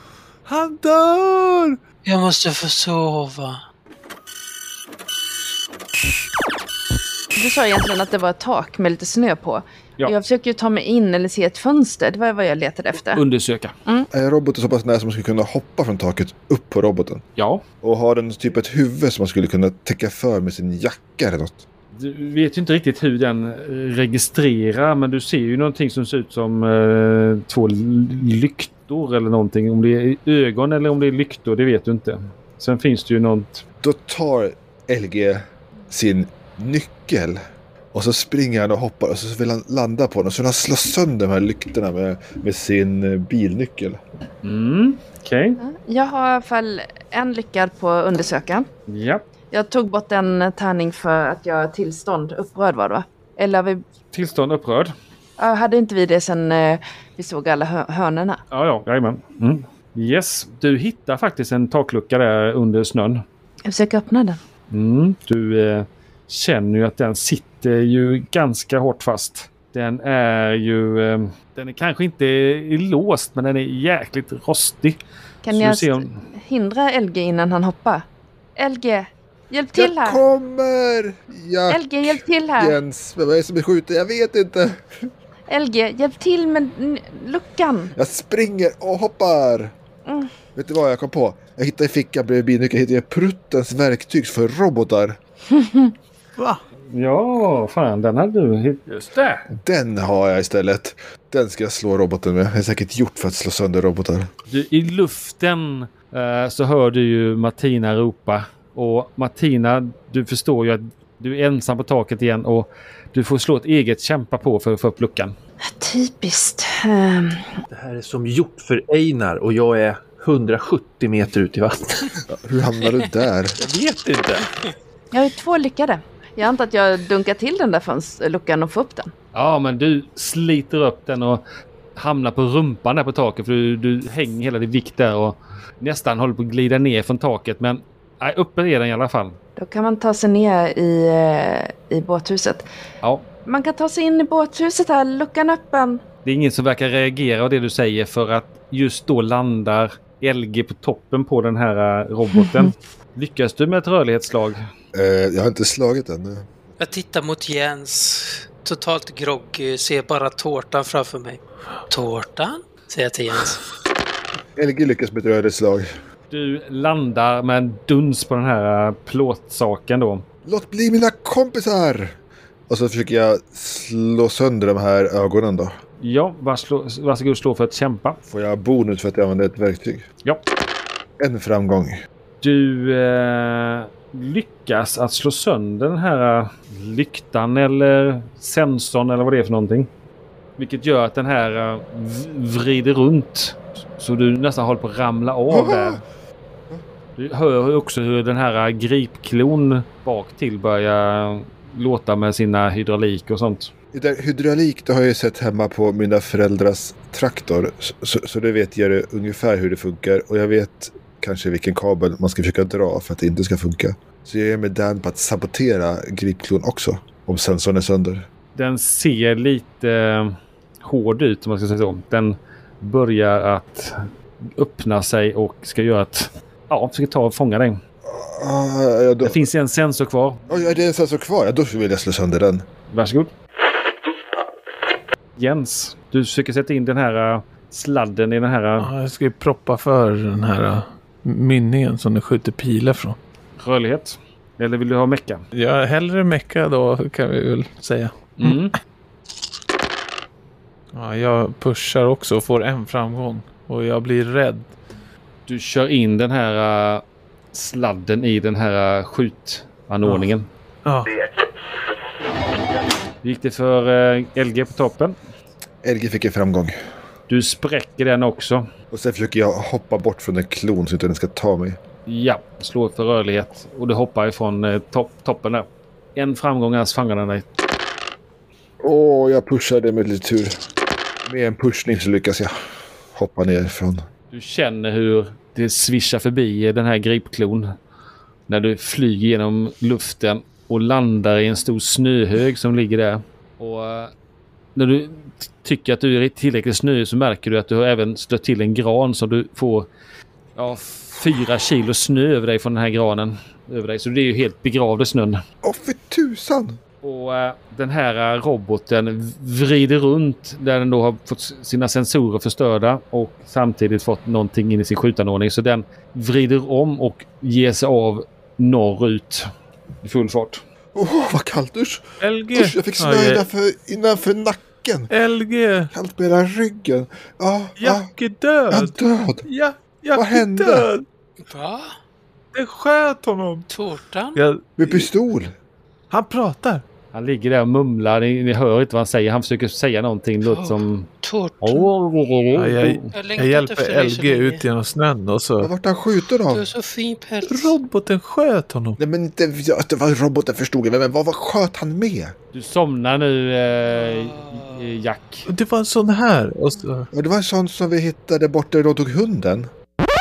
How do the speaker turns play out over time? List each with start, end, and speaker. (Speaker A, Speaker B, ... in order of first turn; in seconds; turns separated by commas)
Speaker A: 0.5-1.8, Speaker B: 2.0-3.6, Speaker C: 7.3-13.2, Speaker D: 13.1-13.7, Speaker E: 14.1-17.2, Speaker D: 17.4-17.6, Speaker E: 17.8-21.6, Speaker D: 21.9-33.6, Speaker E: 33.8-37.4, Speaker E: 37.9-44.0, Speaker D: 44.4-45.6, Speaker C: 45.6-48.7, Speaker D: 48.9-49.2, Speaker C: 49.5-53.8, Speaker D: 54.1-54.9, Speaker C: 55.4-58.4, Speaker D: 58.5-63.2, Speaker C: 63.7-64.4, Speaker D: 64.7-76.1, Speaker C: 75.4-78.0, Speaker C: 78.6-80.2, Speaker E: 79.8-85.1, Speaker C: 81.7-82.8, Speaker C: 85.5-87.9, Speaker E: 88.0-89.7, Speaker E: 90.5-95.2, Speaker C: 95.5-95.9, Speaker D: 96.9-99.2, Speaker F: 99.1-99.4, Speaker E: 99.5-104.3, Speaker D: 104.5-115.3, Speaker C: 115.6-117.5, Speaker F: 117.7-122.2, Speaker E: 122.3-123.6, Speaker F: 123.6-124.5, Speaker C: 125.1-129.1, Speaker D: 129.3-131.4, Speaker D: 132.0-139.4, Speaker C: 139.6-142.7, Speaker C: 143.5-146.0, Speaker D: 146.2-154.6, Speaker E: 154.9-156.5, Speaker B: 156.8-163.6, Speaker E: 164.6-165.9, Speaker D: 166.3-170.2, Speaker E: 170.4-172.2, Speaker E: 172.7-175.8, Speaker D: 176.0-178.2, Speaker E: 178.3-180.1, Speaker E: 181.2-182.0, Speaker D: 182.4-189.9, Speaker D: 190.6-196.0, Speaker E: 195.5-196.0, Speaker D: 197.2-203.7, Speaker E: 203.9-218.3, Speaker D: 218.6-227.8, Speaker E: 228.1-229.4, Speaker D: 229.2-230.5, Speaker E: 230.5-232.7, Speaker D: 232.9-233.3, Speaker D: 235.4-238.9, Speaker A: 238.8-243.2, Speaker D: 243.6-245.4, Speaker A: 245.5-248.7, Speaker D: 248.4-248.8, Speaker A: 250.9-254.7, Speaker D: 255.5-260.5, Speaker A: 260.9-261.2, Speaker D: 263.2-265.2, Speaker E: 265.8-266.8, Speaker D: 267.3-268.7, Speaker E: 268.9-271.8, Speaker D: 272.1-277.4, Speaker E: 278.8-280.6, Speaker E: 281.2-282.5, Speaker E: 283.1-284.1, Speaker D: 284.3-287.7, Speaker D: 288.5-294.1, Speaker D: 294.8-299.9, Speaker D: 300.6-305.4, Speaker E: 305.6-306.8, Speaker D: 307.0-319.5, Speaker D: 320.0-320.6, Speaker E: 320.9-325.1, Speaker A: 322.2-323.4, Speaker A: 325.1-325.9, Speaker E: 325.9-328.1, Speaker A: 327.8-331.1, Speaker E: 328.7-329.4, Speaker E: 330.2-330.9, Speaker B: 331.5-331.9, Speaker A: 332.5-333.6, Speaker B: 333.7-334.4, Speaker A: 334.4-335.1, Speaker E: 334.8-335.5, Speaker A: 336.1-336.8, Speaker D: 337.1-341.1, Speaker B: 340.4-341.9, Speaker D: 341.6-343.1, Speaker A: 342.6-345.7, Speaker B: 343.1-344.6, Speaker E: 345.6-346.7, Speaker B: 346.5-347.8, Speaker A: 347.4-349.0, Speaker E: 349.0-352.4, Speaker D: 352.5-355.5, Speaker A: 355.5-357.1, Speaker E: 357.1-359.7